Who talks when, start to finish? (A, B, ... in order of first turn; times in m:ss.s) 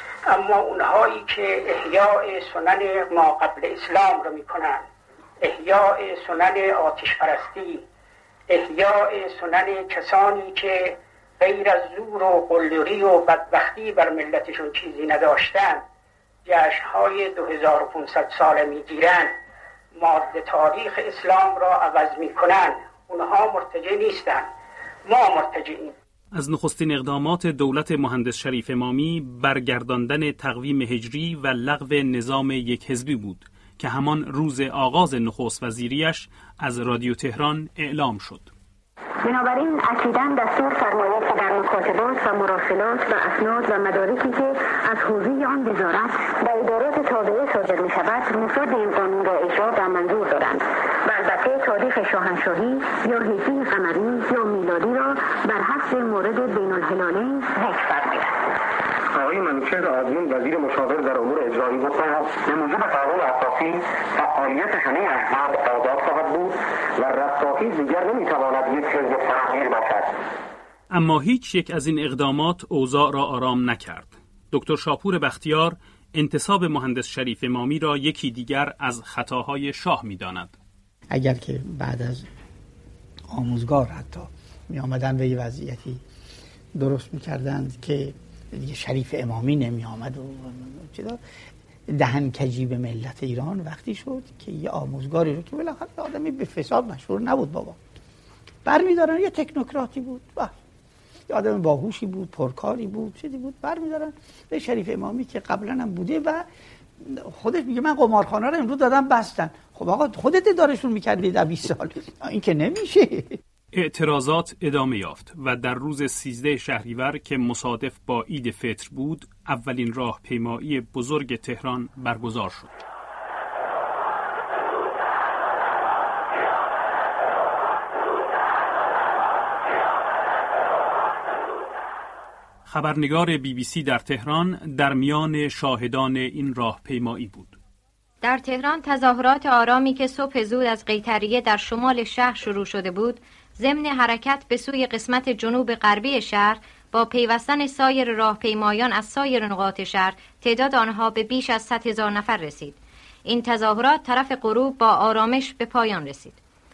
0:00.3-0:04.9 A
0:05.4-0:07.9 A
0:08.5-0:15.8 A
0:16.4-0:19.4 A
0:20.0-0:24.5 A
0:25.1-0:26.0 A
0:26.3-0:38.5 B
0:39.2-0:58.3 C
0:59.1-1:10.2 D
1:10.9-1:20.6 B
1:21.1-1:22.3 E
1:23.3-1:26.0 E
1:26.8-1:31.2 E
1:31.9-1:37.8 E
1:38.6-1:40.6 E
1:41.3-1:46.4 E
1:47.0-1:53.4 E
1:53.7-2:02.7 B
2:12.7-2:17.6 B
2:18.2-2:36.4 F